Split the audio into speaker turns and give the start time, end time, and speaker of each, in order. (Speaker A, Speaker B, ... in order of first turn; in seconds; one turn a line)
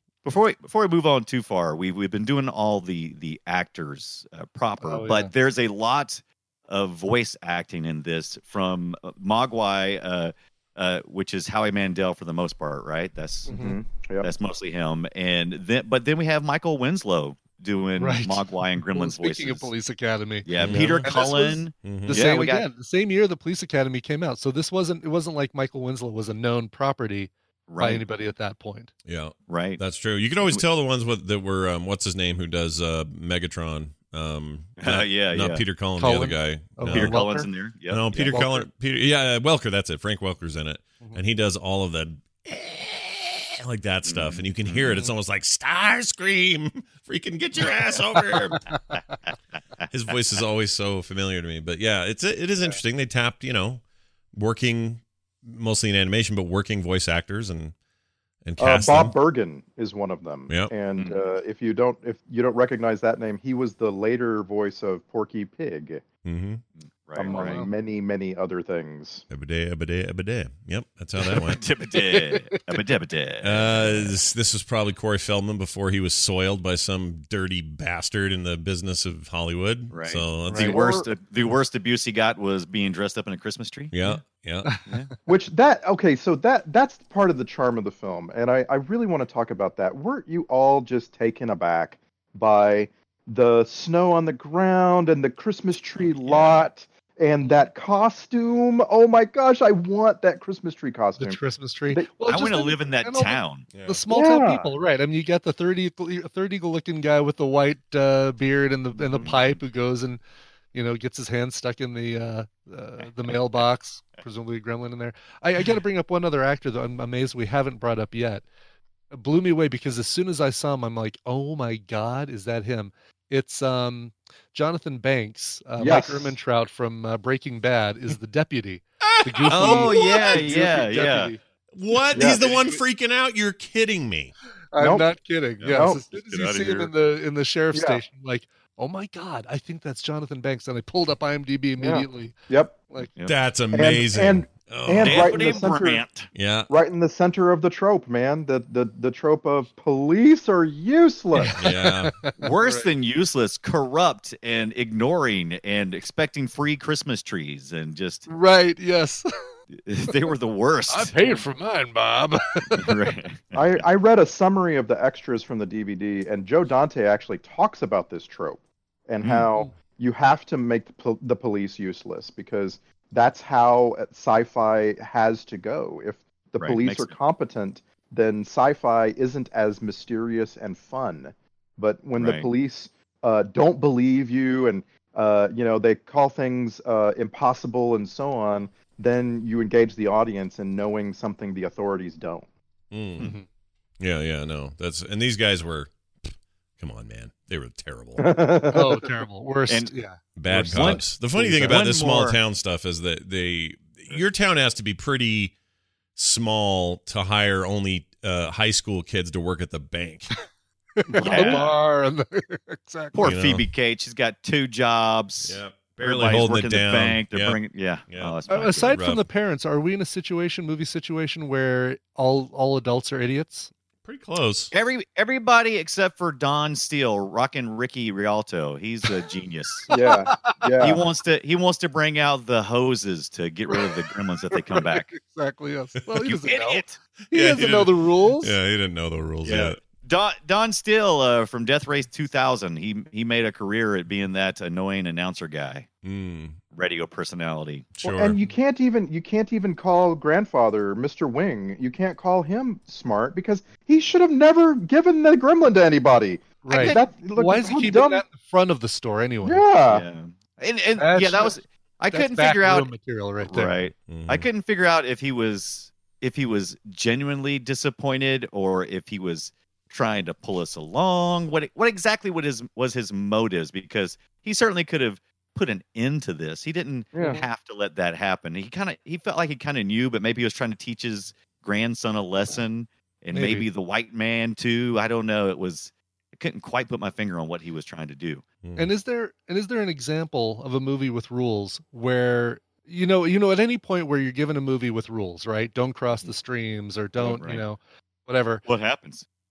Speaker A: 0.2-13.5
Speaker B: 4.8-5.3
Speaker B: 13.5-13.8
Speaker C: 13.5-14.3
Speaker A: 14.2-19.7
Speaker B: 18.0-28.9
Speaker A: 20.4-22.7
Speaker D: 20.6-21.1
Speaker D: 21.8-22.2
Speaker A: 27.7-28.1
Speaker D: 29.1-37.2
Speaker A: 29.5-29.8
Speaker A: 34.8-35.6
Speaker B: 36.0-37.5
Speaker A: 36.9-38.6
Speaker D: 37.9-48.6
Speaker B: 38.2-38.6
Speaker A: 44.1-45.0
Speaker A: 48.3-49.0
Speaker B: 48.5-48.8
Speaker D: 49.9-53.8
Speaker D: 54.3-57.7
Speaker D: 58.5-59.1
Speaker C: 58.6-66.0
Speaker D: 60.5-60.7
Speaker A: 61.0-61.2
Speaker D: 66.2-66.6
Speaker A: 66.8-67.6
Speaker C: 67.2-69.2
Speaker B: 67.3-67.7
Speaker D: 69.3-71.6
Speaker B: 71.2-72.8
Speaker A: 71.3-74.2
Speaker D: 73.4-80.8
Speaker A: 79.9-84.2
Speaker C: 80.6-81.1
Speaker D: 83.9-84.8
Speaker C: 85.3-102.1
Speaker A: 96.2-96.6
Speaker B: 101.2-110.2
Speaker A: 102.3-103.7
Speaker D: 103.7-104.0
Speaker C: 104.1-104.7
Speaker A: 109.0-109.6
Speaker B: 110.7-118.5
Speaker A: 113.3-113.6
Speaker B: 119.1-131.4
Speaker C: 125.8-126.3
Speaker D: 129.2-130.4
Speaker A: 129.5-131.3
Speaker D: 131.7-134.3
Speaker C: 132.1-132.6
Speaker B: 134.7-142.4
Speaker C: 134.8-135.1
Speaker A: 135.6-136.9
Speaker C: 135.7-136.0
Speaker C: 137.7-138.0
Speaker C: 141.8-142.8
Speaker D: 143.3-145.6
Speaker C: 143.7-146.0
Speaker A: 145.0-146.3
Speaker D: 146.3-146.7
Speaker C: 146.7-151.7
Speaker B: 151.3-152.9
Speaker D: 151.6-152.1
Speaker A: 152.4-158.3
Speaker B: 158.3-159.3
Speaker A: 159.7-161.4
Speaker B: 160.9-163.0
Speaker A: 162.8-163.8
Speaker C: 163.5-192.5
Speaker A: 169.2-169.5
Speaker A: 176.6-177.1
Speaker A: 182.2-182.5
Speaker D: 192.9-193.3
Speaker B: 193.2-193.4
Speaker D: 194.0-195.9
Speaker D: 196.8-198.3
Speaker C: 198.2-199.1
Speaker B: 198.7-200.2
Speaker D: 200.4-205.5
Speaker A: 200.5-202.4
Speaker D: 206.2-210.3
Speaker B: 211.0-213.2
Speaker A: 211.2-211.8
Speaker C: 211.2-211.6
Speaker A: 213.1-219.0
Speaker D: 213.2-213.7
Speaker D: 215.4-219.2
Speaker B: 218.5-223.7
Speaker D: 224.1-224.7
Speaker A: 224.7-229.9
Speaker B: 229.9-230.8
Speaker C: 229.9-231.0
Speaker A: 230.8-235.1
Speaker B: 233.7-238.6
Speaker A: 236.2-237.0
Speaker D: 237.3-239.8
Speaker A: 239.4-245.9
Speaker D: 246.0-246.6
Speaker A: 246.7-247.9
Speaker D: 248.0-248.4
Speaker C: 248.0-258.2
Speaker B: 256.6-259.6
Speaker A: 256.7-257.1
Speaker C: 259.4-260.1
Speaker A: 259.9-288.4
Speaker B: 261.0-261.6
Speaker B: 262.1-263.8
Speaker D: 264.1-264.5
Speaker C: 277.1-277.4
Speaker B: 283.3-283.7
Speaker D: 288.6-288.9
Speaker B: 288.8-298.6
Speaker A: 297.2-297.6
Speaker A: 298.6-299.2